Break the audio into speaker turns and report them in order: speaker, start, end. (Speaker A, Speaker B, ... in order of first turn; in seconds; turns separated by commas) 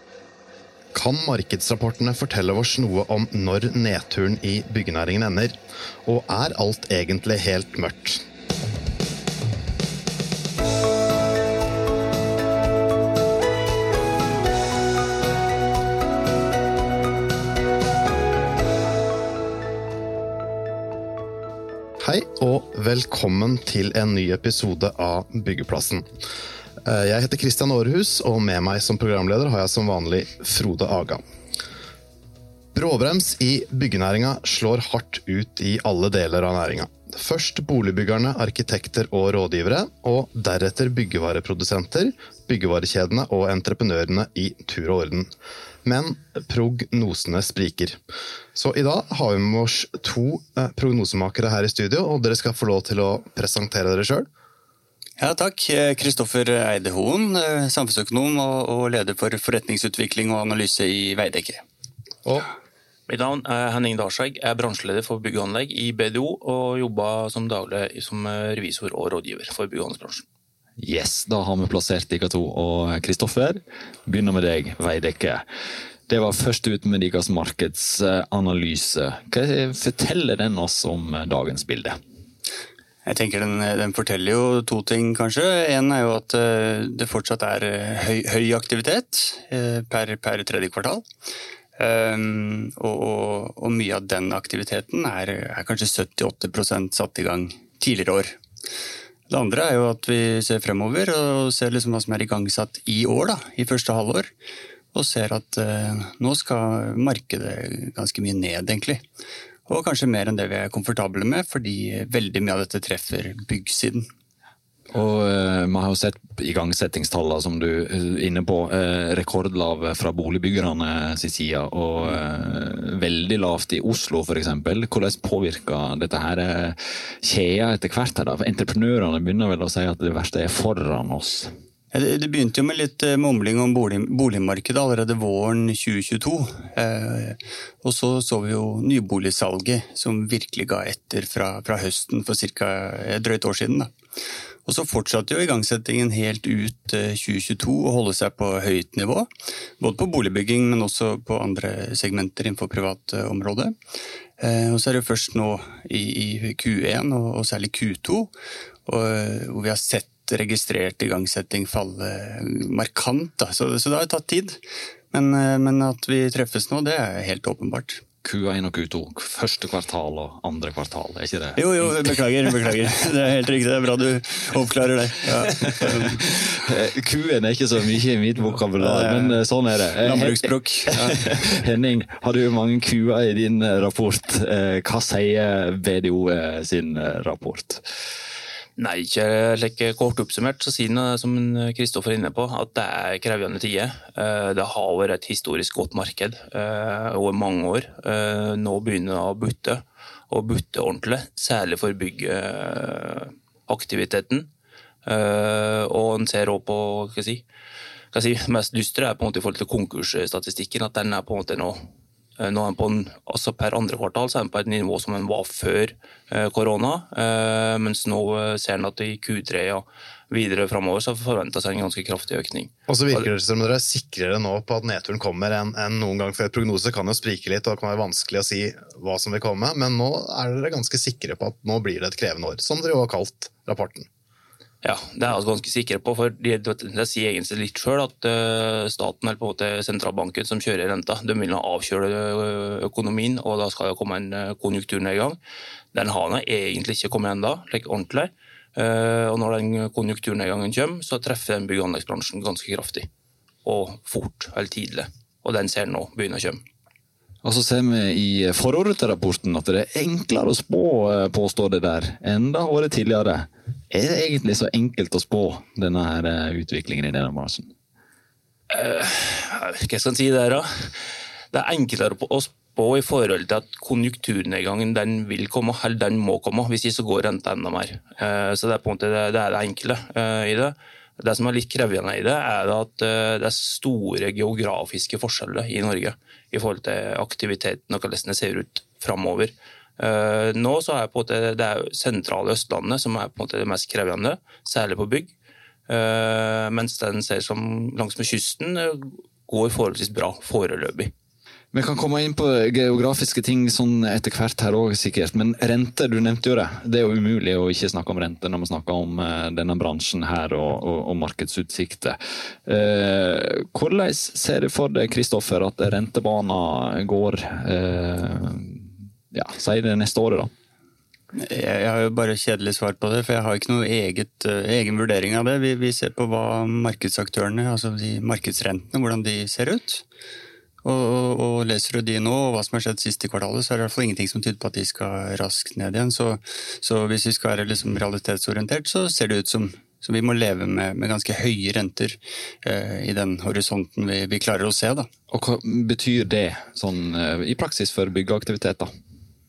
Speaker A: 0.9-8.2, Speaker A: 22.0-26.1, Speaker A: 26.8-31.2, Speaker A: 32.7-45.3, Speaker A: 45.8-48.0, Speaker A: 48.5-54.3, Speaker B: 55.2-61.6, Speaker C: 63.1-70.2, Speaker D: 70.8-75.4, Speaker D: 76.1-82.0, Speaker B: 83.0-91.1, Speaker B: 91.8-98.4, Speaker B: 99.3-104.3, Speaker B: 104.9-109.0, Speaker B: 109.7-114.1, Speaker D: 114.9-131.5, Speaker B: 131.9-143.9, Speaker B: 144.6-149.3, Speaker B: 149.8-153.8, Speaker B: 154.4-158.3, Speaker B: 158.8-164.6, Speaker B: 165.1-168.0, Speaker D: 168.2-172.2, Speaker B: 171.6-176.6, Speaker D: 175.8-187.8, Speaker B: 178.8-179.4, Speaker B: 180.0-181.4, Speaker C: 188.8-204.5, Speaker C: 205.0-207.4, Speaker C: 208.1-223.2, Speaker A: 222.9-234.1, Speaker C: 234.8-245.4, Speaker C: 245.9-253.1, Speaker C: 253.6-256.6, Speaker D: 257.4-267.7, Speaker C: 268.7-295.3, Speaker C: 295.9-301.1, Speaker D: 301.7-320.5, Speaker B: 321.3-330.0, Speaker B: 330.8-345.1, Speaker D: 345.3-348.9